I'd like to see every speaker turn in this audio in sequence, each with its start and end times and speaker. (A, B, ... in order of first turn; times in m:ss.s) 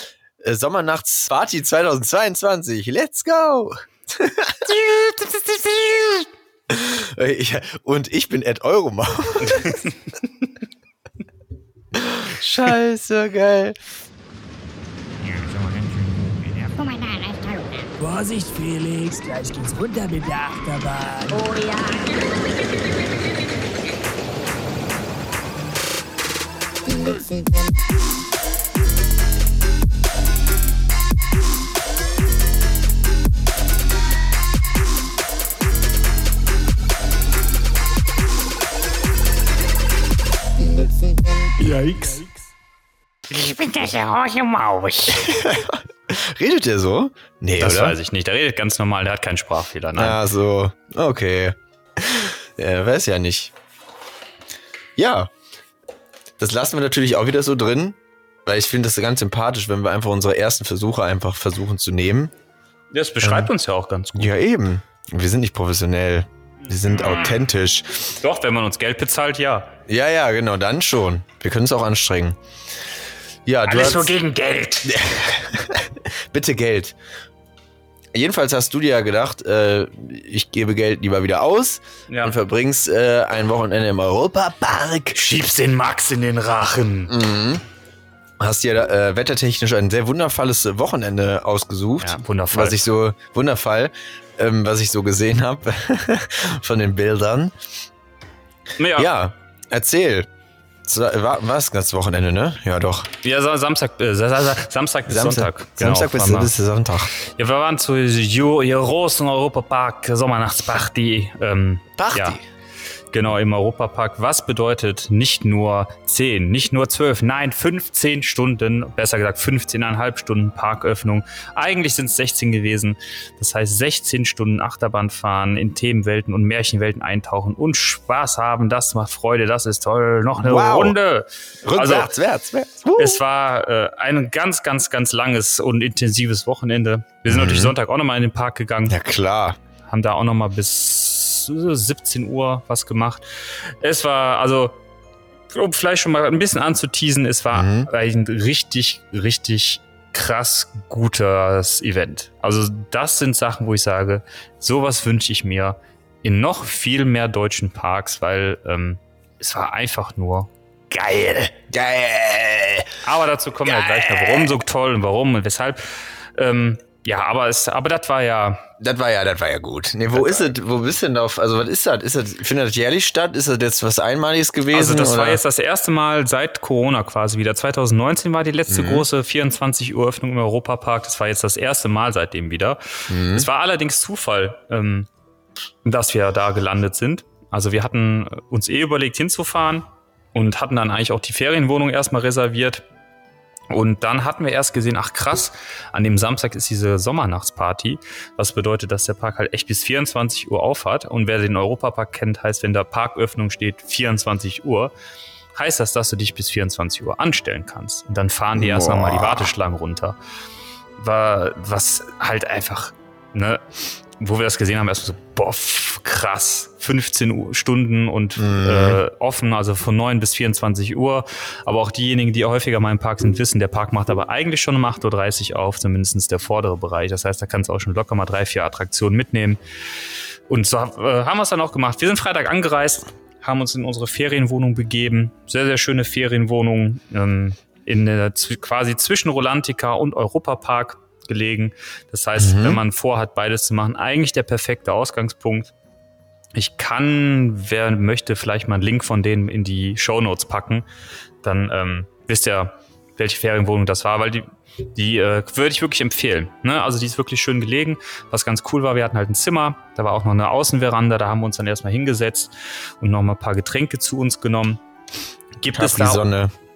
0:00.4-0:05.2 A
0:06.7-0:09.9 A
0:09.4-0:10.4 B
0:11.9-0:13.8 A
0:15.2-0:16.7 B
0:16.7-0:18.0 C
0:18.1-0:21.0 D
0:18.4-0:20.9 B
0:21.3-0:22.6 C
0:41.6-0:42.3 D
0:43.3-0:45.4 B
0:45.1-0:48.0 A
0:47.6-0:50.2 B
0:50.0-0:53.5 A
0:55.0-0:55.3 A
0:56.4-1:02.3 A
1:02.9-1:04.3 B
1:03.2-1:03.5 A
1:04.2-1:08.1 A
1:06.7-1:07.4 B
1:08.2-1:09.7 B
1:09.9-1:12.4 A
1:13.5-1:14.2 A
1:13.7-1:14.9 B
1:14.8-1:17.0 A
1:18.1-1:25.2 A
1:22.1-1:22.4 B
1:25.1-1:27.1 B
1:27.1-1:27.6 A
1:28.4-1:37.6 A
1:32.0-1:32.8 B
1:38.8-1:39.1 B
1:39.0-1:40.3 A
1:40.8-1:43.1 A
1:43.2-1:46.5 B
1:45.1-1:47.1 A
1:47.1-1:52.4 B
1:52.0-1:52.4 A
1:53.1-2:12.1 B
2:10.4-2:11.0 A
2:11.6-2:13.2 A
2:13.0-2:19.0 B
2:17.3-2:17.8 A
2:18.9-2:19.6 A
2:19.9-2:24.8 B
2:25.5-2:41.6 B
2:27.5-2:27.9 A
2:41.7-2:43.0 A
2:43.0-2:48.7 B
2:43.6-2:44.6 A
2:48.8-2:55.4 A
2:50.2-2:50.5 B
2:54.7-3:05.1 B
2:58.7-2:59.1 A
3:03.1-3:03.5 A
3:05.8-3:12.8 B
3:13.7-3:24.9 B
3:25.6-3:30.2 B
3:28.6-3:29.5 A
3:31.0-3:33.6 B
3:34.2-3:49.6 B
3:38.4-3:39.0 A
3:50.5-4:05.7 B
4:02.4-4:02.8 A
4:06.6-4:10.8 B
4:11.4-4:24.8 B
4:25.6-4:26.3 B
4:25.8-4:26.5 A